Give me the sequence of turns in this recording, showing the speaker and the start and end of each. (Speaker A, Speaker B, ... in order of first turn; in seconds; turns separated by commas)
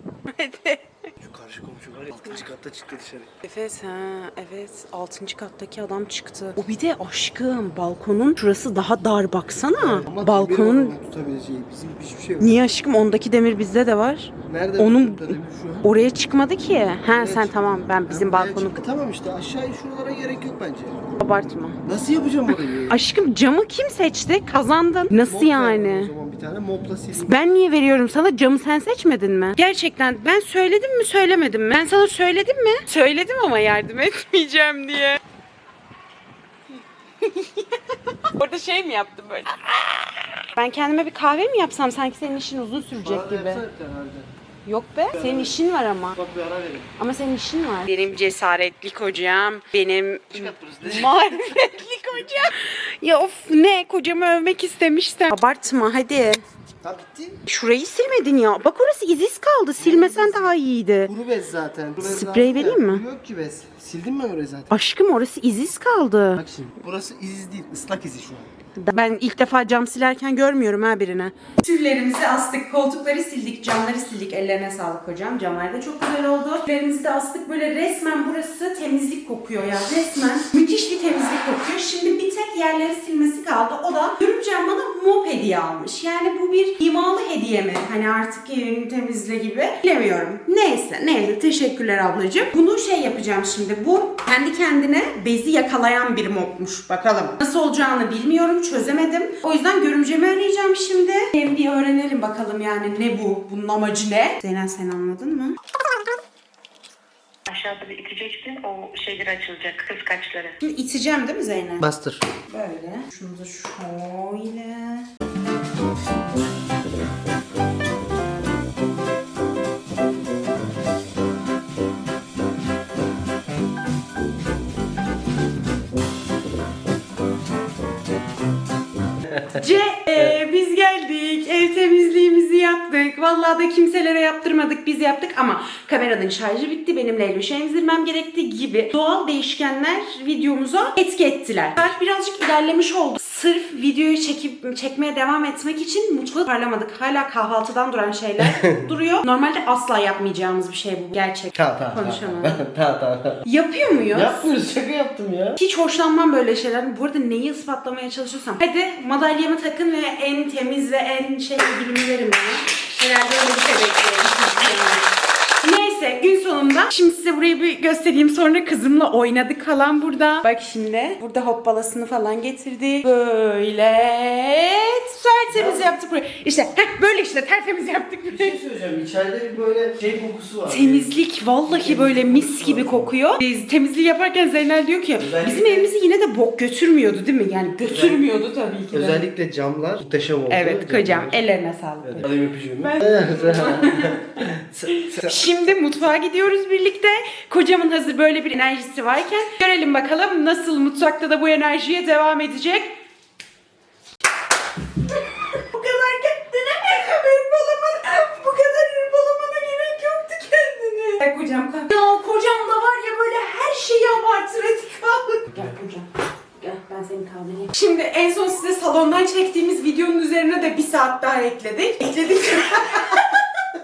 Speaker A: 0.3-1.1, Speaker B: 1.2-3.3, Speaker A: 3.4-10.9, Speaker B: 9.7-12.6, Speaker A: 12.4-18.8, Speaker B: 14.5-15.9, Speaker B: 17.1-21.2, Speaker A: 21.2-21.8, Speaker B: 21.8-23.0, Speaker A: 22.5-26.1, Speaker B: 25.1-27.3, Speaker A: 27.1-35.2, Speaker A: 37.2-43.6, Speaker B: 43.0-44.3, Speaker A: 44.6-46.2, Speaker B: 45.1-45.5, Speaker B: 46.1-46.9, Speaker A: 47.0-56.4, Speaker B: 50.3-51.3, Speaker B: 56.8-57.4, Speaker A: 57.5-61.1, Speaker B: 59.8-64.7, Speaker A: 62.0-63.0, Speaker A: 64.7-66.4, Speaker B: 66.3-68.5, Speaker A: 68.8-105.6, Speaker C: 107.5-110.5, Speaker A: 110.6-111.8, Speaker B: 111.8-112.2, Speaker A: 112.5-115.0, Speaker B: 129.2-129.6, Speaker A: 129.5-152.6, Speaker B: 148.4-148.8, Speaker B: 151.5-153.4, Speaker A: 153.4-154.5, Speaker B: 154.1-155.6, Speaker A: 155.6-178.6, Speaker B: 175.5-175.9, Speaker B: 178.3-181.1, Speaker A: 180.7-189.3, Speaker B: 181.6-183.1, Speaker B: 185.2-185.9, Speaker B: 187.8-188.2, Speaker B: 188.9-191.4, Speaker A: 190.5-203.0, Speaker B: 192.0-195.5, Speaker A: 205.1-223.4